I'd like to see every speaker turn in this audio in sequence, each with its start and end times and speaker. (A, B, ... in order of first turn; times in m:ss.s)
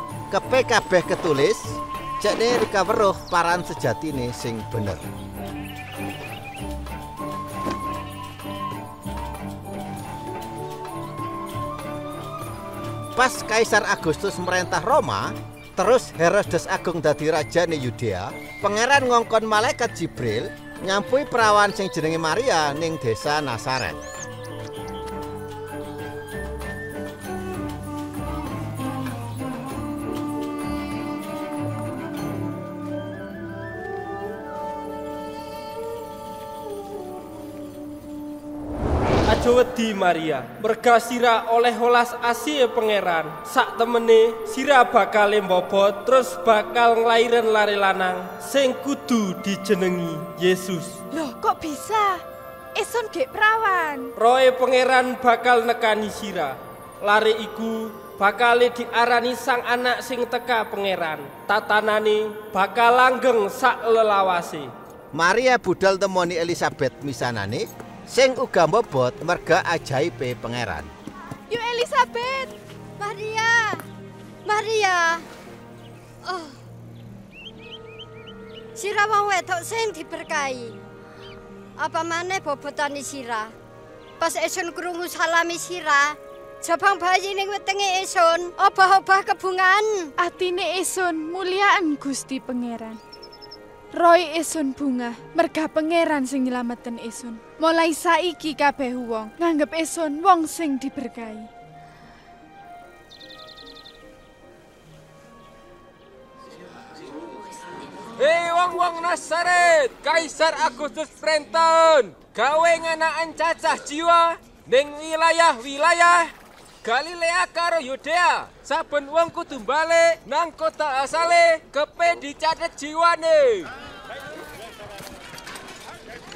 0:00.3-0:05.1 A
0:13.1-0:24.0 A
0:39.3-0:51.0 B
0:51.1-0:52.2 C
0:52.7-0:54.1 C
0:54.2-1:04.7 B
1:05.1-1:10.9 A
1:11.5-1:12.5 C
1:13.0-1:13.8 D
1:14.4-1:15.2 D
1:16.2-1:16.6 D
1:18.7-1:20.8 D
1:21.8-1:23.5 D
1:24.2-1:30.1 D
1:30.2-1:33.0 C
1:33.9-1:41.5 C
1:48.2-1:56.3 E
1:56.8-2:03.7 E